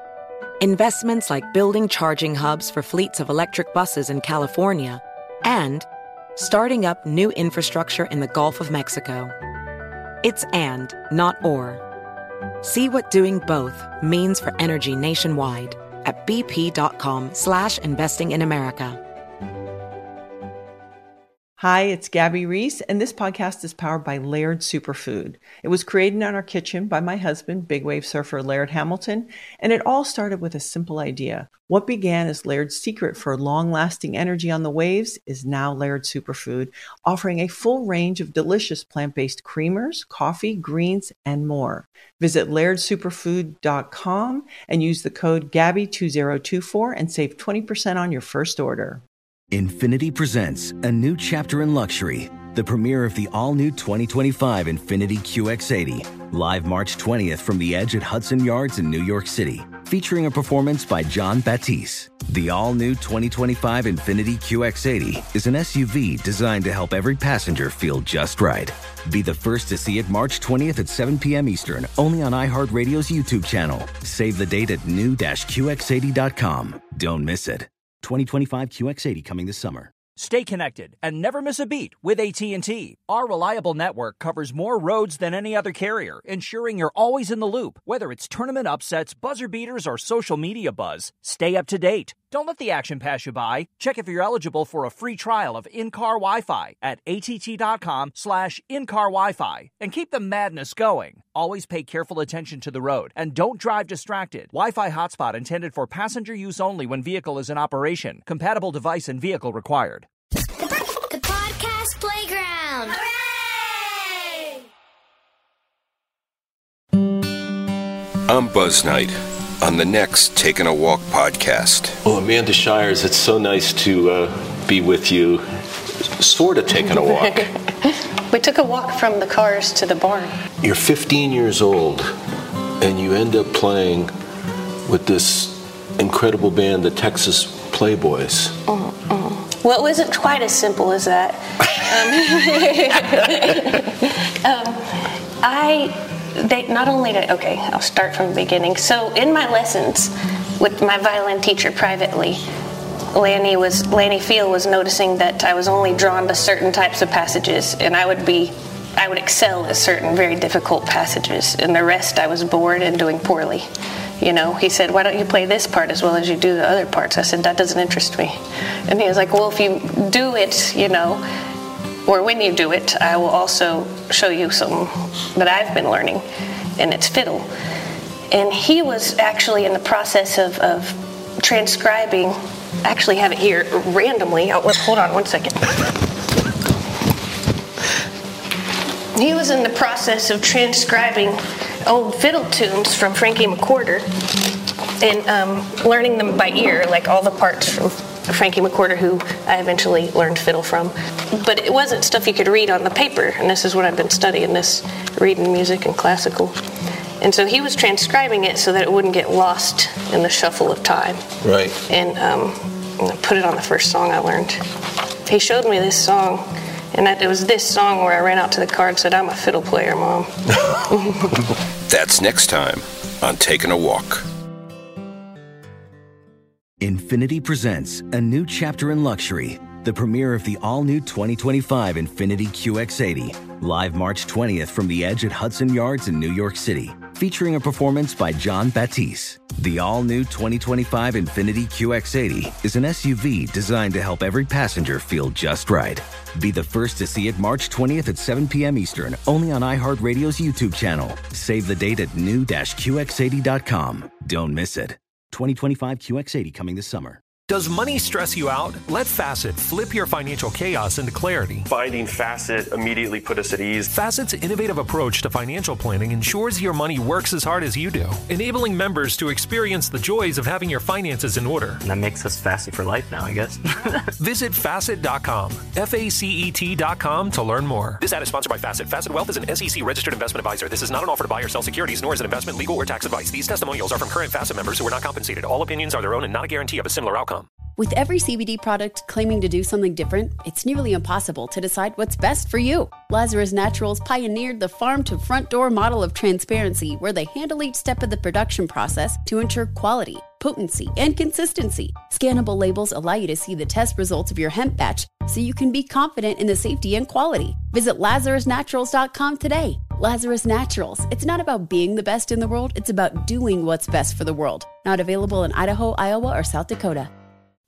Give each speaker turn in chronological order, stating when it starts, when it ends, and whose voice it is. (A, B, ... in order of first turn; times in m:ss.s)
0:00.6-0:09.3 A
0:10.2-0:11.8 A
0:12.6-0:19.0 A
0:21.6-0:49.0 B
0:49.5-1:19.9 C
1:20.2-1:50.1 D
1:51.1-1:54.0 E
1:58.3-2:01.9 F
2:02.0-2:05.4 G
2:06.2-2:07.5 G
2:06.7-2:10.3 H
2:10.6-2:12.1 G
2:12.8-2:14.1 G
2:14.9-2:18.5 G
2:18.7-2:32.4 H
2:33.1-2:43.6 H
2:44.2-2:48.4 H
2:48.9-2:51.2 H
2:52.1-2:56.2 H
2:56.8-2:57.5 H
2:58.3-3:05.6 H
3:09.2-3:14.1 H
3:15.0-3:26.5 H
3:27.2-3:31.2 H
3:31.4-3:31.8 G
3:31.9-3:34.6 H
3:35.3-3:40.3 H
3:41.9-3:44.2 F
3:46.8-4:17.2 C
4:17.5-4:21.7 I
4:21.7-4:23.9 J
4:23.9-4:31.8 I
4:31.8-4:34.1 K
4:34.2-4:47.5 I
4:47.8-5:17.1 L